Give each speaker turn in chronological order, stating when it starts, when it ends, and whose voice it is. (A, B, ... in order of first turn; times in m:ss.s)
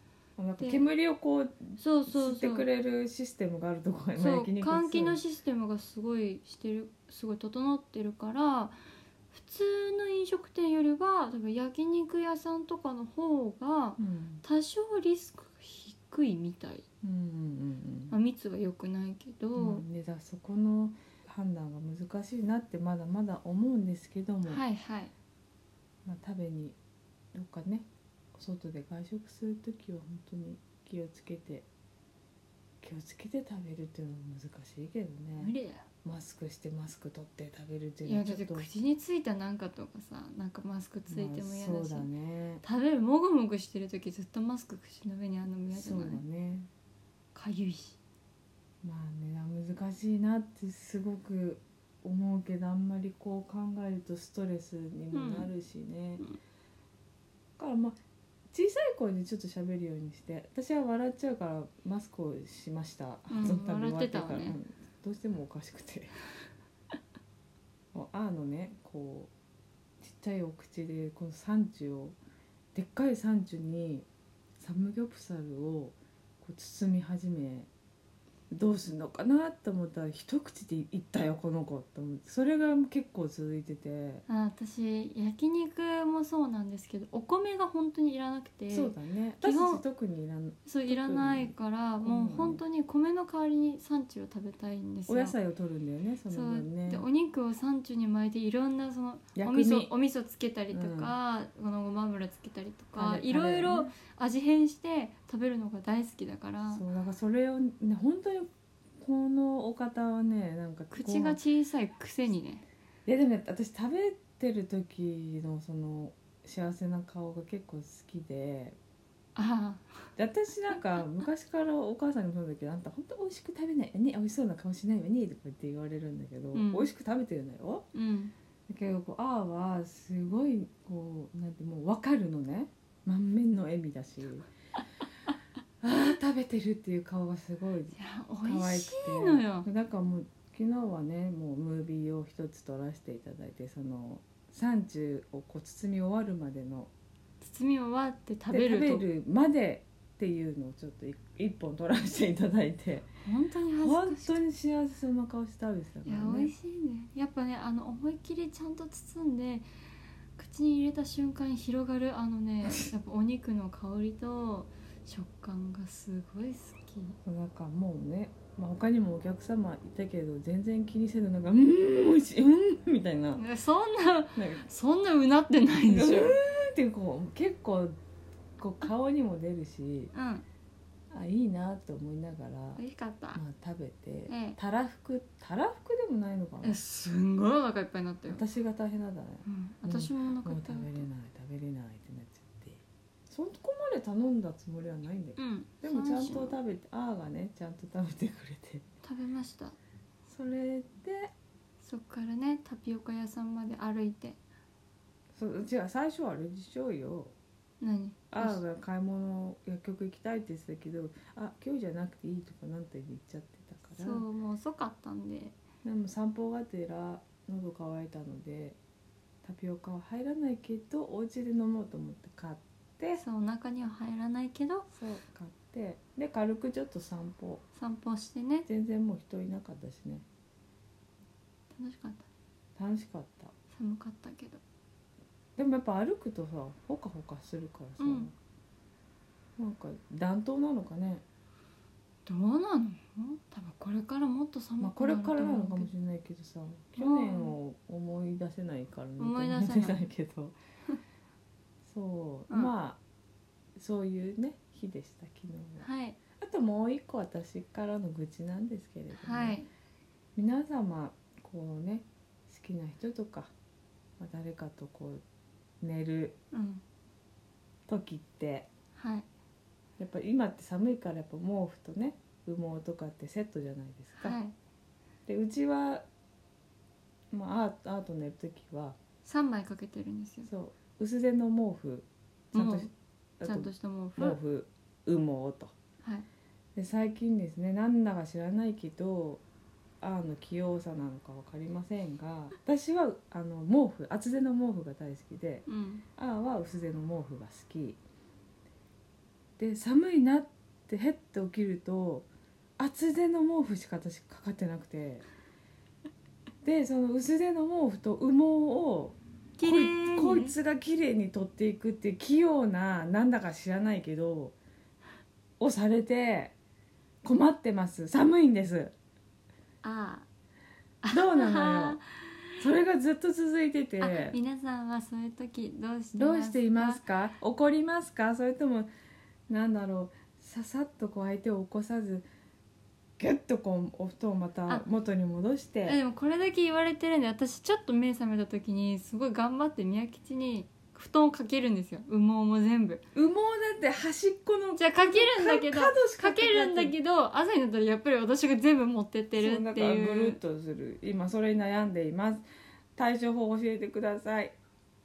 0:00.4-0:05.2 A
0:01.8-0:02.7 B
0:04.2-0:08.8 B
0:09.3-0:16.8 B
0:14.0-0:14.4 A
0:17.0-0:18.2 A
0:18.1-0:19.8 B
0:19.6-0:24.6 A
0:24.4-0:25.1 B
0:26.0-0:26.8 A
0:27.3-0:31.7 A
0:32.8-0:38.7 A
0:35.4-0:35.8 B
0:38.0-0:42.1 B
0:41.1-0:42.6 A
0:42.6-0:46.2 B
0:45.7-0:46.7 A
0:47.3-0:48.0 B
0:48.8-0:56.2 A
0:55.1-0:55.5 B
0:57.6-0:58.0 A
0:58.5-1:06.2 A
1:03.3-1:04.6 B
1:07.9-1:09.3 A
1:10.0-1:12.2 A
1:12.7-1:14.1 A
1:14.6-1:17.7 A
1:18.5-1:24.2 A
1:24.3-1:29.8 B
1:28.7-1:32.6 A
1:30.6-1:35.3 B
1:35.1-1:37.0 A
1:36.3-1:46.8 B
1:39.3-1:39.9 A
1:40.7-1:41.1 A
1:43.0-1:43.9 A
1:46.6-1:48.5 A
1:49.0-1:51.4 A
1:50.9-1:52.6 B
1:53.0-1:58.8 A
1:59.3-2:00.1 B
2:00.2-2:07.9 A
2:06.5-2:06.9 B
2:07.9-2:08.3 B
2:08.7-2:14.5 A
2:15.8-2:26.9 A
2:17.9-2:19.7 B
2:27.4-2:29.0 B
2:28.5-2:33.1 A
2:33.2-2:34.4 B
2:33.8-2:36.5 A
2:36.0-2:39.7 B
2:40.4-2:47.2 B
2:47.2-2:53.4 A
2:53.4-2:56.4 B
2:54.4-2:54.6 A
2:55.9-2:58.0 A
2:58.6-3:00.1 A
3:00.1-3:00.4 B
3:01.1-3:02.8 A
3:02.8-3:03.4 B
3:03.3-3:06.8 A
3:04.3-3:04.6 B
3:06.6-3:08.4 B
3:08.3-3:18.8 A
3:09.4-3:11.0 B
3:15.4-3:16.6 B
3:19.0-3:19.8 B
3:20.3-3:21.3 A
3:21.8-3:24.4 B
3:25.3-3:27.3 A
3:27.8-3:28.6 B
3:28.3-3:34.2 A
3:34.0-3:35.6 B
3:35.8-3:38.8 A
3:39.4-3:43.2 A
3:43.1-3:44.9 B
3:44.9-3:47.6 A
3:47.7-3:48.7 B
3:48.6-3:50.2 A
3:51.7-3:52.2 B
3:52.8-3:53.5 A
3:53.7-3:54.6 B
3:55.6-3:58.3 A
3:58.0-3:58.3 B
3:59.6-4:01.2 A
4:02.2-4:05.9 B
4:04.8-4:10.5 A
4:06.9-4:07.6 B
4:09.2-4:10.0 B
4:11.8-4:13.0 A
4:13.8-4:15.9 A
4:15.8-4:16.2 B
4:16.4-4:19.6 A
4:19.1-4:19.7 B
4:20.4-4:23.5 A
4:24.2-4:25.2 A
4:25.8-4:26.4 A
4:26.5-4:26.8 B
4:27.9-4:28.7 A
4:28.9-4:29.3 B
4:30.0-4:34.4 A
4:34.2-4:34.5 B
4:35.2-4:36.0 A
4:37.3-4:39.0 A
4:39.2-4:40.5 B
4:40.4-4:42.9 A
4:42.5-4:42.9 B
4:43.4-4:45.7 A
4:43.4-4:44.4 B
4:46.8-4:49.4 A
4:50.0-4:58.0 A
4:55.7-4:56.0 B
4:59.6-5:05.3 A
5:06.6-5:14.6 A
5:09.6-5:10.5 B
5:15.6-5:16.5 A
5:17.2-5:18.9 A
5:19.8-5:20.2 B
5:21.0-5:22.6 B
5:21.1-5:22.0 A
5:22.6-5:24.4 A
5:24.0-5:27.0 B
5:26.1-5:28.9 A
5:29.5-5:32.2 A
5:33.2-5:36.0 A
5:35.8-5:43.0 B
5:43.1-5:46.9 A
5:44.7-5:50.4 B
5:49.4-5:54.6 A